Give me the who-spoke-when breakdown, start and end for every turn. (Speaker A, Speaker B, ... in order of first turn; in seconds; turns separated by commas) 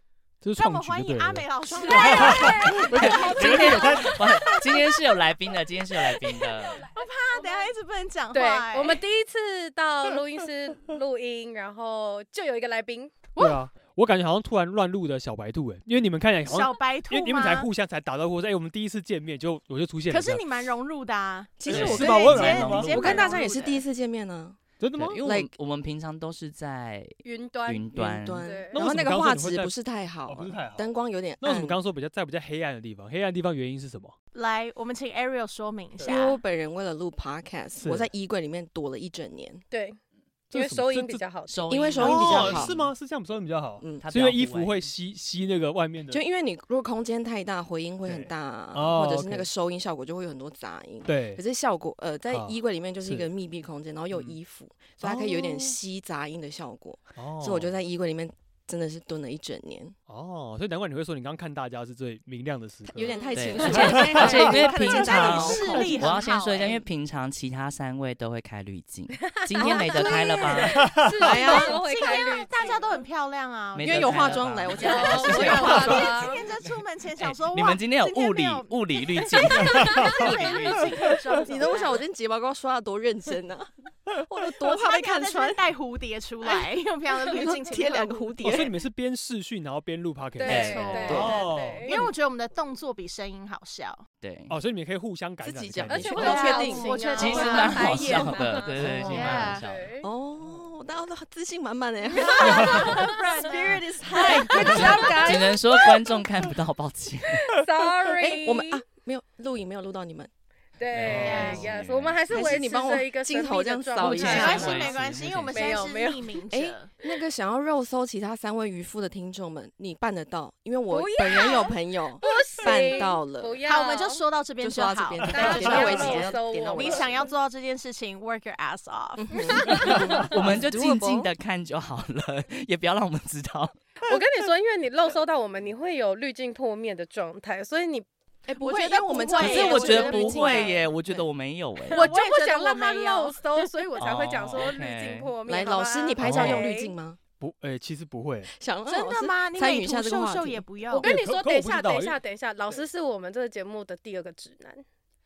Speaker A: 0.4-4.8, Speaker B: 0.6-4.1, Speaker C: 1.7-4.5, Speaker D: 3.0-6.9, Speaker C: 6.6-7.7, Speaker B: 6.9-9.0, Speaker C: 8.3-13.2, Speaker B: 13.3-13.6, Speaker A: 13.4-20.4, Speaker B: 16.4-17.7, Speaker B: 20.1-23.8, Speaker E: 21.6-24.6, Speaker A: 21.7-23.3, Speaker D: 21.7-23.4, Speaker A: 24.8-25.2, Speaker D: 24.9-27.1, Speaker E: 25.2-25.5, Speaker C: 27.2-28.8, Speaker D: 27.6-28.6, Speaker E: 27.9-31.8, Speaker A: 28.7-29.7, Speaker A: 30.2-30.9, Speaker A: 31.4-34.1, Speaker B: 34.3-36.4, Speaker E: 36.0-39.6, Speaker A: 37.8-38.1, Speaker C: 39.7-40.0, Speaker A: 40.5-41.2, Speaker C: 40.5-42.6, Speaker D: 41.5-42.9, Speaker E: 41.7-42.7, Speaker A: 42.0-46.2, Speaker D: 44.0-44.9, Speaker E: 46.1-59.9, Speaker A: 48.0-49.5, Speaker A: 51.0-51.4, Speaker A: 52.3-53.2, Speaker A: 55.0-55.7, Speaker A: 57.2-57.7, Speaker A: 60.1-66.2, Speaker E: 62.9-66.0, Speaker C: 63.0-64.4, Speaker D: 63.3-70.9, Speaker B: 65.0-66.8, Speaker C: 69.3-73.0, Speaker E: 69.6-70.5, Speaker A: 70.8-71.3, Speaker E: 71.2-71.8, Speaker B: 71.4-82.0, Speaker D: 73.7-76.1, Speaker E: 73.8-76.3, Speaker C: 74.8-76.4, Speaker D: 77.2-80.9, Speaker C: 79.6-80.2, Speaker E: 80.3-80.8, Speaker E: 81.4-85.6, Speaker B: 84.5-88.7, Speaker E: 87.3-88.8, Speaker A: 88.4-92.0, Speaker C: 90.4-92.0, Speaker B: 90.4-94.0, Speaker D: 90.5-91.4, Speaker E: 91.0-91.3, Speaker D: 94.2-94.6, Speaker A: 94.5-96.6, Speaker E: 95.4-98.0, Speaker C: 95.9-100.1, Speaker B: 96.1-99.6, Speaker D: 97.1-99.9, Speaker A: 98.8-99.4, Speaker E: 98.8-99.3, Speaker E: 100.0-105.4, Speaker B: 102.1-105.1, Speaker C: 102.1-103.4, Speaker A: 102.5-102.9, Speaker C: 104.1-106.2, Speaker D: 104.5-107.5, Speaker C: 107.3-108.8, Speaker E: 108.2-110.3, Speaker C: 110.8-114.9, Speaker D: 110.9-112.6, Speaker B: 111.1-111.6, Speaker A: 111.1-111.7, Speaker E: 112.3-114.9, Speaker D: 114.0-115.8, Speaker B: 114.1-116.9, Speaker C: 115.5-116.4, Speaker E: 116.5-123.6, Speaker C: 120.9-124.2, Speaker B: 121.0-122.4, Speaker B: 123.6-130.1, Speaker E: 124.6-127.3, Speaker C: 125.3-127.3, Speaker E: 129.2-131.3, Speaker C: 129.4-130.2, Speaker D: 129.8-133.8, Speaker C: 134.1-138.1, Speaker E: 138.5-141.2, Speaker B: 138.6-140.8, Speaker D: 139.4-142.1, Speaker C: 139.4-139.9, Speaker B: 141.9-143.6, Speaker C: 141.9-146.9, Speaker D: 144.0-145.3, Speaker E: 145.4-147.2, Speaker A: 146.2-146.7, Speaker A: 147.4-148.5, Speaker E: 148.5-150.6, Speaker B: 148.9-151.1, Speaker C: 150.9-154.8, Speaker A: 151.0-152.2